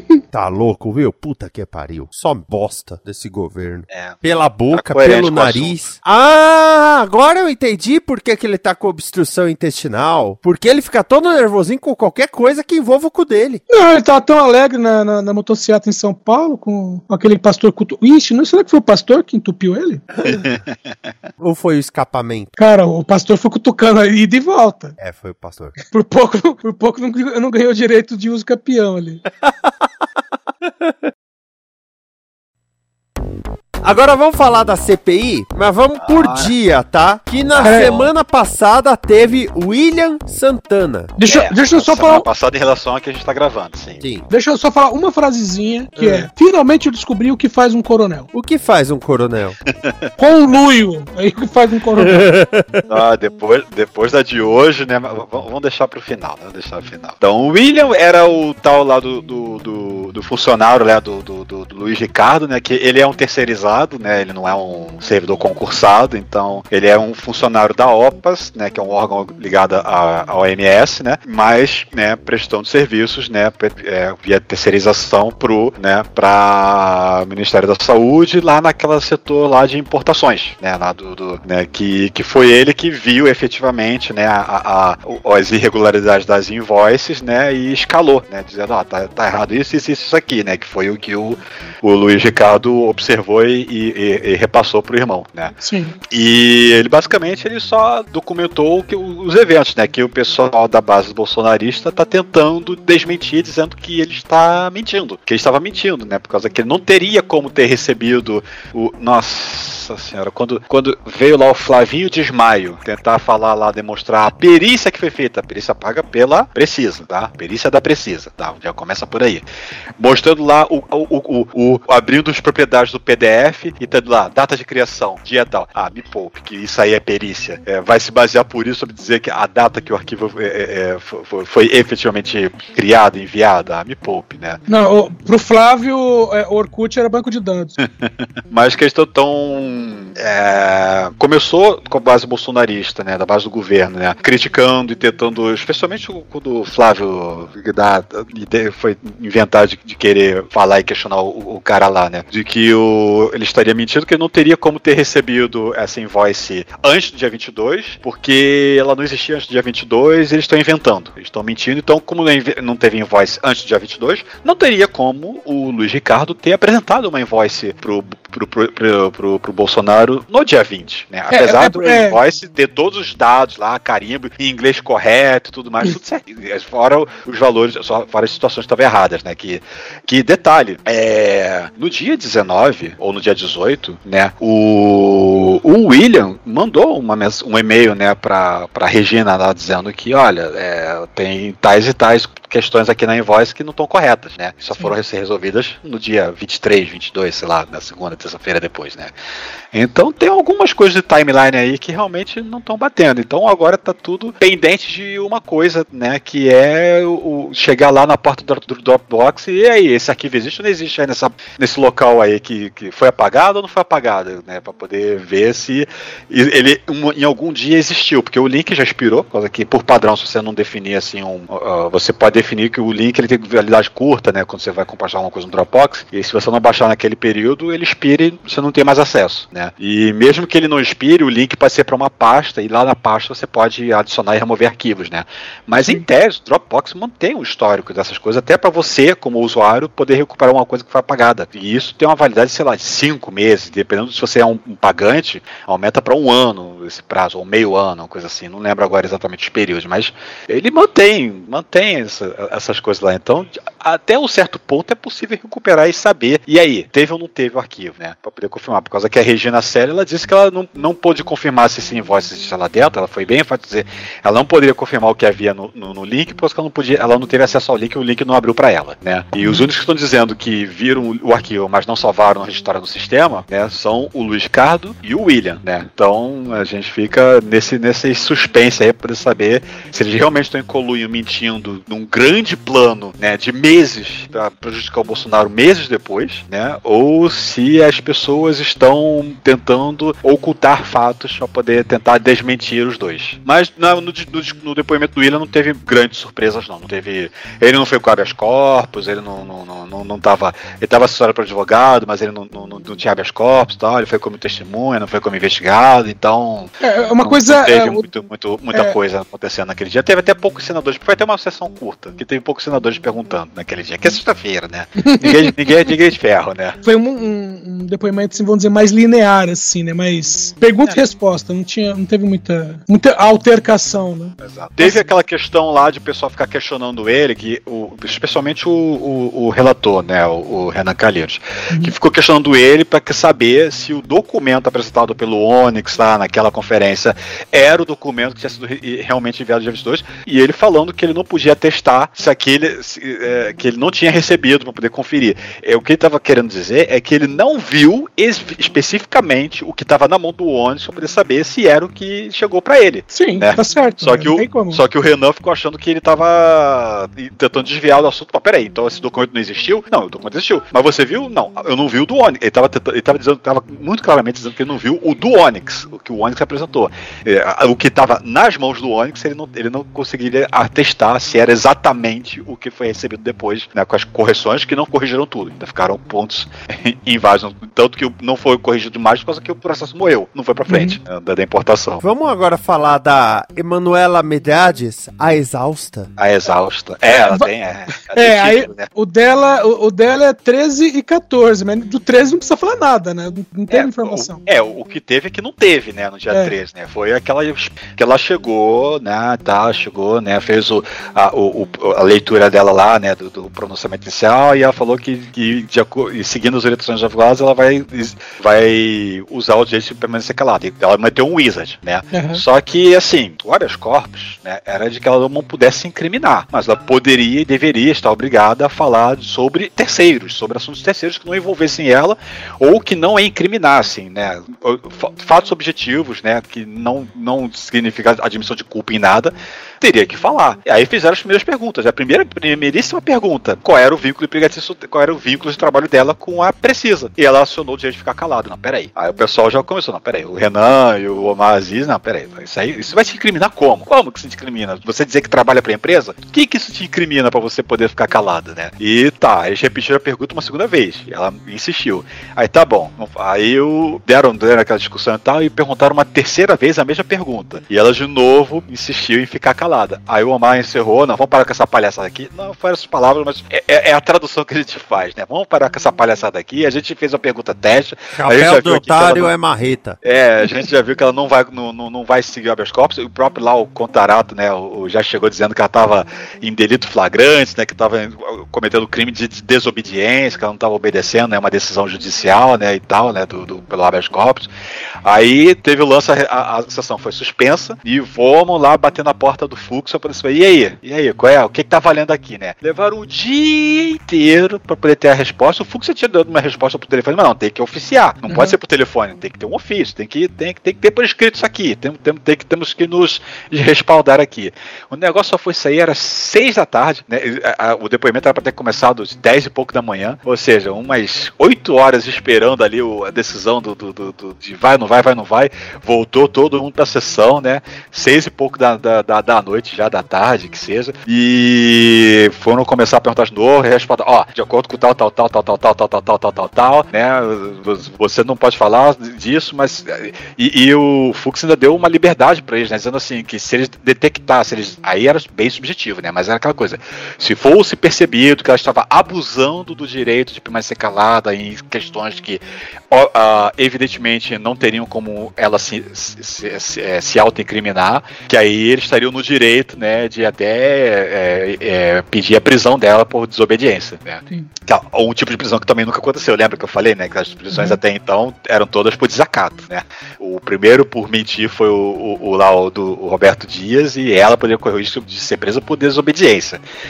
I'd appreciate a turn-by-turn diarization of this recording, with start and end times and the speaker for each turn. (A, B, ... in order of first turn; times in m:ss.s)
0:00.3-0:13.6 A
0:03.9-0:04.2 B
0:04.7-0:05.8 B
0:13.7-0:20.0 C
0:20.2-0:20.5 A
0:20.2-0:20.7 B
0:21.4-0:22.5 A
0:22.6-0:25.0 C
0:25.0-0:25.8 A
0:25.9-0:29.2 C
0:29.4-0:29.9 A
0:30.6-0:31.0 A
0:33.8-0:41.1 A
0:36.0-0:36.5 B
0:37.5-0:38.1 B
0:37.7-0:38.0 C
0:41.2-0:42.3 C
0:41.2-0:44.0 B
0:44.3-0:48.3 C
0:46.0-0:46.3 A
0:48.3-0:49.6 A
0:50.2-0:52.3 C
0:52.0-0:53.0 A
0:52.9-1:35.5 B
1:35.6-1:36.0 C
1:36.1-1:59.4 B
2:00.0-2:14.6 B
2:14.7-2:17.8 C
2:17.8-3:19.1 B
2:51.3-2:52.2 C
3:19.7-5:16.8 B
4:29.4-4:29.7 C
5:06.8-5:08.1 C
5:15.0-5:15.5 C
5:16.8-5:25.0 C
5:24.4-6:22.0 B
5:53.1-5:54.8 C
6:20.7-6:21.0 C
6:22.0-6:26.1 A
6:26.2-6:28.9 B
6:27.1-6:27.5 C
6:28.1-6:34.4 C
6:33.7-7:49.3 B
6:52.1-6:52.4 C
7:48.1-7:50.0 A
7:50.0-8:04.5 B
8:05.0-9:26.6 B
8:18.3-8:18.6 C
9:17.5-9:17.8 C